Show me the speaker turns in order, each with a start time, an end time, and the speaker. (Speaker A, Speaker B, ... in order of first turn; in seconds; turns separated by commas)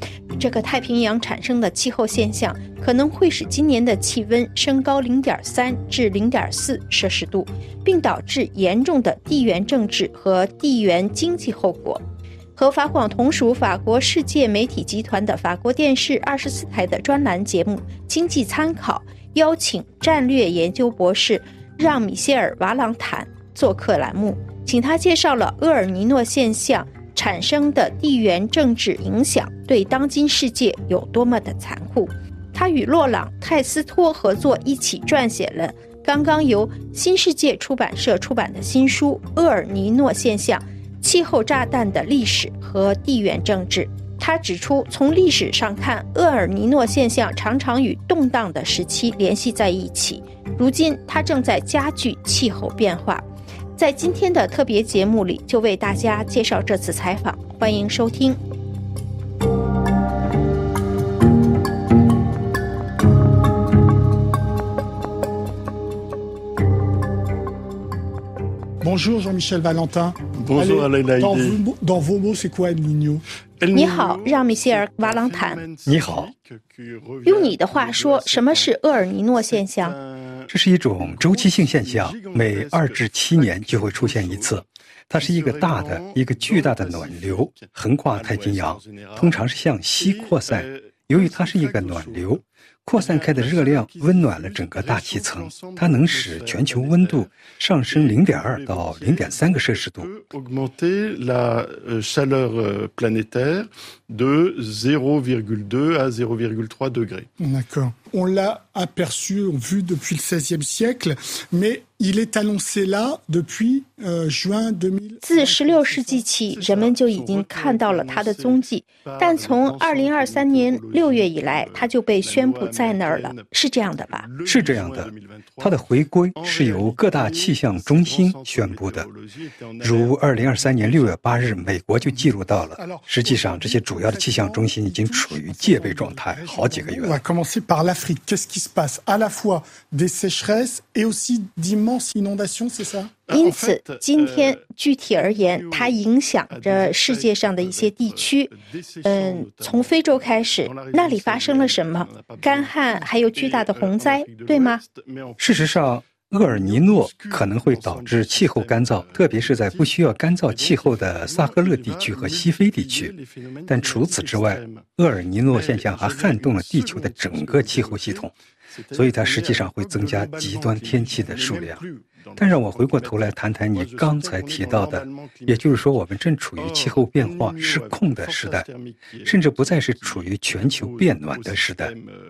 Speaker A: 0.3-12.0, Speaker A: 12.6-58.4, Speaker B: 68.8-73.2, Speaker C: 70.4-71.6, Speaker C: 73.6-78.7, Speaker A: 73.7-75.6, Speaker D: 75.8-76.3, Speaker A: 77.2-80.0, Speaker C: 79.6-84.6, Speaker D: 80.5-100.1, Speaker C: 85.2-89.3, Speaker C: 90.0-92.3, Speaker C: 93.0-97.2, Speaker C: 97.9-107.3, Speaker B: 107.4-116.2, Speaker A: 115.2-124.2, Speaker C: 116.5-118.5, Speaker C: 119.0-123.4, Speaker C: 124.2-125.7, Speaker D: 124.4-129.1, Speaker C: 126.4-130.1, Speaker D: 129.8-137.2, Speaker B: 132.1-143.1, Speaker A: 143.3-148.5, Speaker C: 143.3-143.9, Speaker C: 146.5-148.0, Speaker C: 148.7-150.0, Speaker A: 149.0-154.8, Speaker C: 150.7-155.5, Speaker D: 155.4-163.1, Speaker C: 156.5-159.9, Speaker C: 160.5-164.8, Speaker D: 163.7-168.3, Speaker C: 165.5-168.2, Speaker C: 168.8-175.6, Speaker D: 168.9-171.8, Speaker D: 172.4-178.7, Speaker C: 176.6-180.3, Speaker D: 179.2-181.9, Speaker C: 180.8-182.0